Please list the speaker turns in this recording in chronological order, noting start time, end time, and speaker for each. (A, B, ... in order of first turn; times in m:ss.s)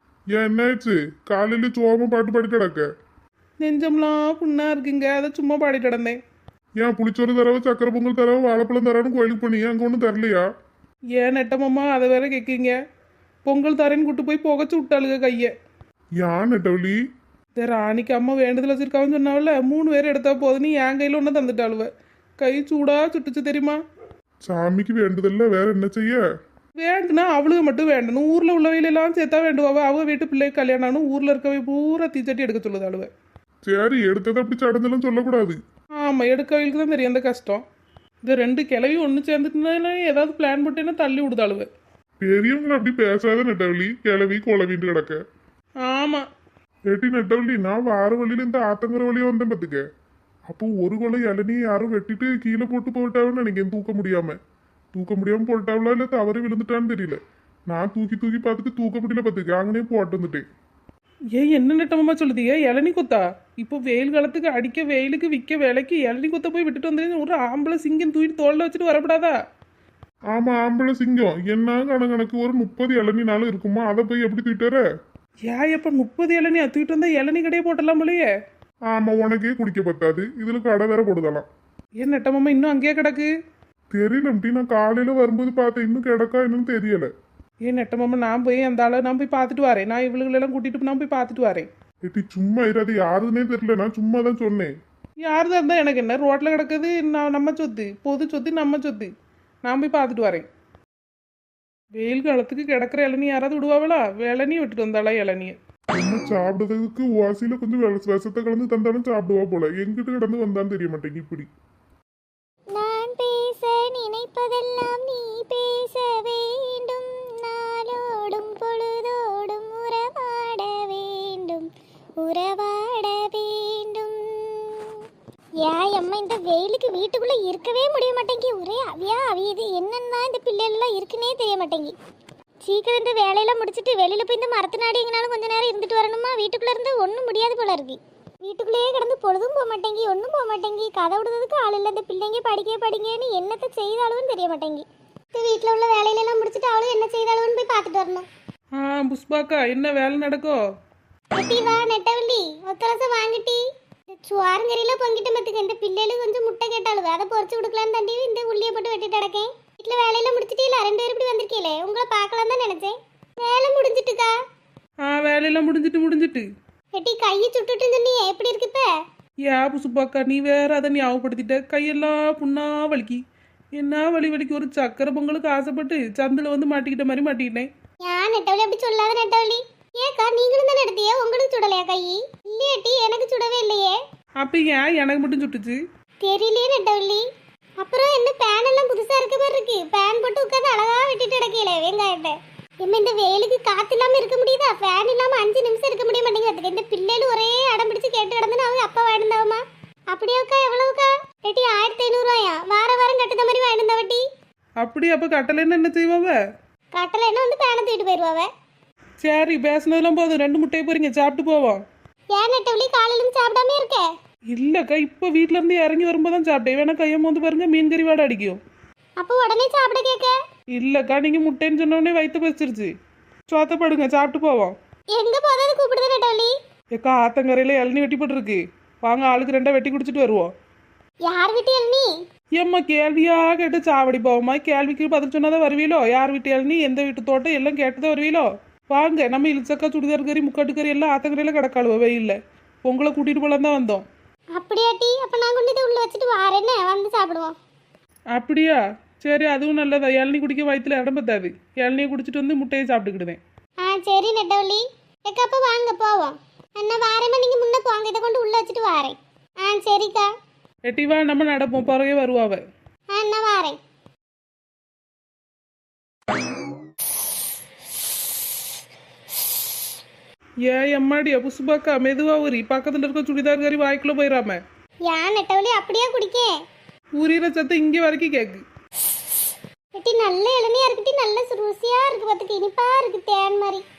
0:00.3-0:02.9 A
0:03.6-0:06.2 B
0:06.8-0:10.5 A
0:11.2-0:12.7 B
0:13.4-0:15.5 B
0:16.2-0:17.0 A
0:17.6-0:21.9 B
0:22.4-0:23.8 B
0:24.4-0:26.2 A
0:26.8-0:33.1 B
0:33.6-0:35.6 A
0:36.0-0:37.6 B
0:38.2-0:41.7 B
0:42.2-0:45.2 A
0:45.8-0:46.2 B
0:46.9-0:49.8 A
0:50.5-0:54.4 A
0:54.9-1:00.4 A
1:01.3-1:09.4 B
1:10.3-1:14.8 A
1:15.5-1:18.3 B
1:18.9-1:21.5 A
1:22.0-1:23.3 B
1:23.9-1:27.1 A
1:27.7-1:31.7 B
1:32.0-1:34.7 A
1:35.2-1:39.1 B
1:39.6-1:40.5 B
1:42.0-1:45.6 B
1:45.9-1:51.5 A
1:52.7-2:01.7 C
2:02.2-2:05.0 C
2:05.6-2:11.9 C
2:12.6-2:28.3 C
2:28.8-2:30.6 B
2:31.3-2:33.6 C
2:34.1-2:44.3 C
2:45.0-2:46.5 B
2:46.9-2:48.9 C
2:49.5-2:53.2 B
2:53.8-2:57.7 B
2:58.0-3:04.0 C
3:04.4-3:05.8 B
3:06.2-3:07.2 C
3:07.8-3:24.2 C
3:24.8-3:26.4 B
3:26.9-3:28.5 C
3:29.2-3:31.8 B
3:32.3-3:34.1 C
3:34.5-3:38.6 B
3:39.2-3:40.4 C
3:40.7-3:42.9 B
3:43.5-3:44.7 B
3:45.1-3:46.5 C
3:46.9-3:50.5 B
3:51.2-3:52.1 C
3:52.6-4:04.0 B
4:04.5-4:07.6 C
4:08.3-4:13.4 B
4:13.8-4:20.3 C
4:20.8-4:22.6 B
4:23.1-4:23.8 C
4:30.6-4:34.6 B
4:35.0-4:36.5 C
4:37.2-4:38.6 B
4:40.0-4:43.8 C